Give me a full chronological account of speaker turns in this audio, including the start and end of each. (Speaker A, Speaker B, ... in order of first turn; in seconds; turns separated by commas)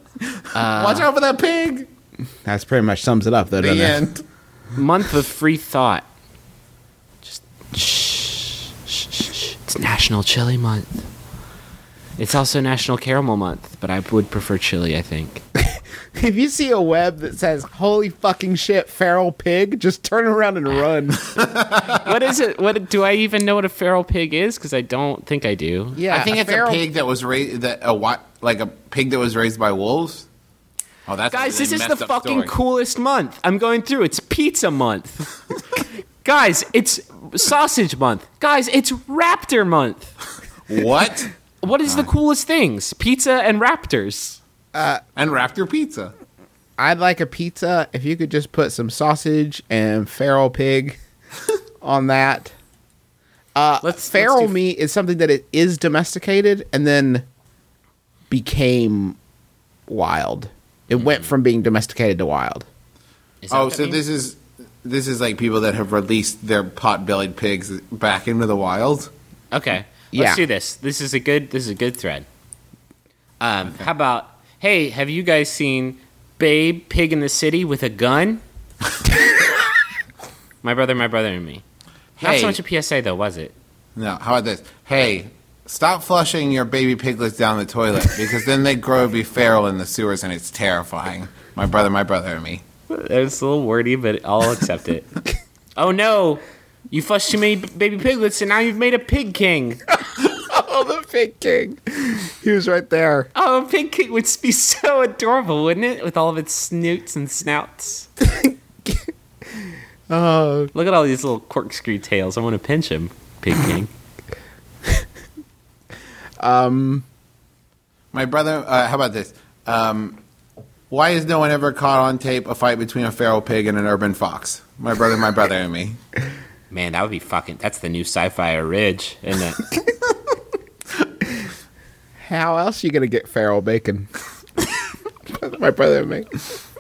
Speaker A: 0.3-1.9, Speaker B: 0.5-1.1, Speaker C: 2.5-4.0, Speaker A: 3.6-4.2, Speaker B: 4.8-6.0, Speaker B: 7.2-11.0, Speaker B: 12.2-15.4, Speaker C: 15.6-22.0, Speaker A: 21.4-21.9, Speaker B: 22.0-26.0, Speaker C: 26.0-26.8, Speaker A: 26.1-30.3, Speaker A: 31.1-32.5, Speaker B: 31.3-35.3, Speaker B: 36.2-40.1, Speaker A: 40.7-41.3, Speaker B: 41.6-44.4, Speaker C: 44.7-45.0, Speaker A: 45.2-46.1, Speaker C: 46.8-51.0, Speaker C: 51.8-52.5, Speaker C: 53.5-57.3, Speaker B: 53.8-54.6, Speaker C: 58.3-59.2, Speaker C: 59.9-62.7, Speaker B: 61.0-61.3, Speaker B: 63.4-64.0, Speaker A: 63.5-69.1, Speaker B: 69.5-72.3, Speaker C: 70.1-70.4, Speaker B: 73.4-78.4, Speaker B: 80.6-81.6, Speaker A: 82.2-82.6, Speaker B: 82.2-83.5, Speaker A: 84.0-92.6, Speaker B: 92.9-95.1, Speaker B: 95.8-99.8, Speaker C: 100.0-103.3, Speaker B: 103.3-108.1, Speaker C: 108.2-110.7, Speaker B: 110.7-113.9, Speaker C: 116.4-117.0, Speaker A: 118.1-120.2, Speaker A: 120.9-126.0, Speaker B: 126.7-129.6, Speaker C: 132.2-134.1, Speaker C: 135.3-136.3